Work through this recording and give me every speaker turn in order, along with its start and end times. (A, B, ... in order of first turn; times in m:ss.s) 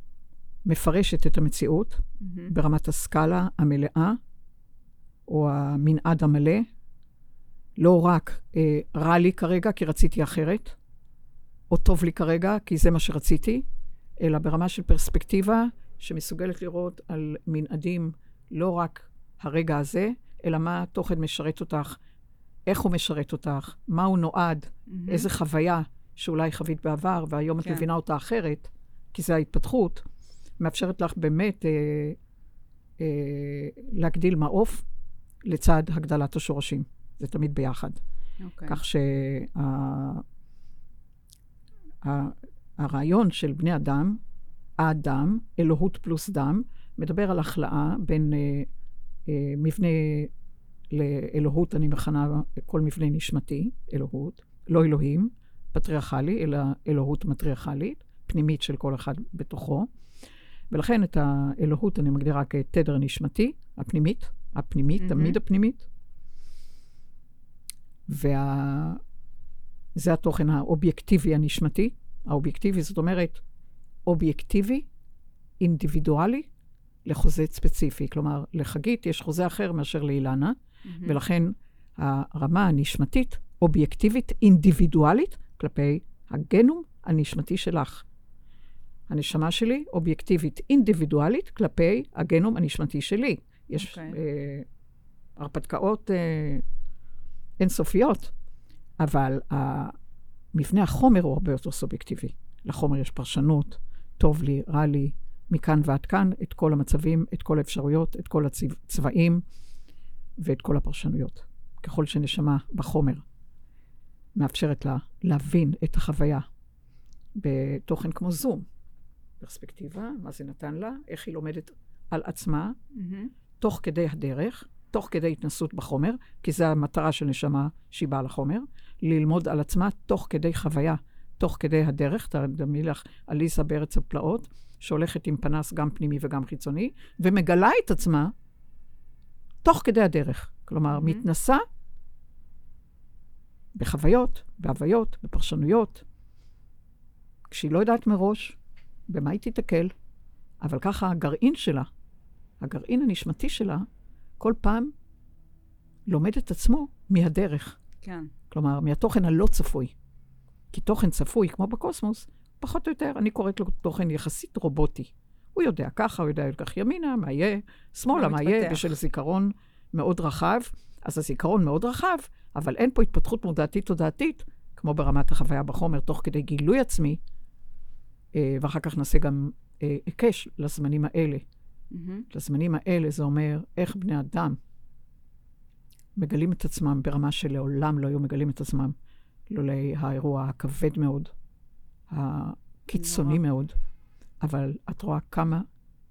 0:00.6-0:04.2 A
0:02.2-0:02.5 B
0:05.3-0:06.6 A
0:07.8-0:10.8 A
0:11.7-0:13.6 A
0:14.2-0:22.0 A
0:22.6-0:30.0 A
0:24.9-0:25.3 B
0:30.6-0:32.2 A
0:33.0-0:34.8 A
0:35.4-0:38.0 A
0:38.4-0:38.8 B
0:38.7-0:40.2 A
0:42.0-0:44.2 A
0:44.8-0:48.7 A
0:49.2-0:50.3 A
0:50.9-0:59.9 A
1:00.7-1:05.8 A
1:05.0-1:05.4 B
1:08.1-1:09.0 A
1:10.0-1:13.4 A
1:14.0-1:14.9 A
1:15.6-1:16.5 A
1:17.0-1:28.0 A
1:20.8-1:21.2 B
1:29.1-1:34.6 A
1:33.8-1:34.2 B
1:35.4-1:36.6 A
1:37.6-1:38.3 A
1:39.0-1:40.0 A
1:40.5-1:49.4 A
1:50.4-1:53.2 A
1:54.4-1:56.4 A
1:57.4-1:58.6 A
1:59.4-2:02.8 A
2:02.9-2:03.3 B
2:03.6-2:18.3 A
2:19.6-2:21.6 A
2:20.9-2:21.2 B
2:23.7-2:26.0 A
2:27.5-2:29.9 A
2:30.6-2:31.9 A
2:32.6-2:33.8 A
2:34.4-2:34.9 A
2:36.1-2:37.8 A
2:38.0-2:38.3 B
2:38.5-2:39.9 A
2:40.7-2:57.2 A
2:48.1-2:48.9 B
2:58.3-3:01.4 A
3:01.9-3:02.2 B
3:02.3-3:04.6 A
3:06.2-3:08.9 A
3:09.5-3:11.3 A
3:12.1-3:13.7 A
3:12.9-3:13.4 B
3:14.4-3:15.7 A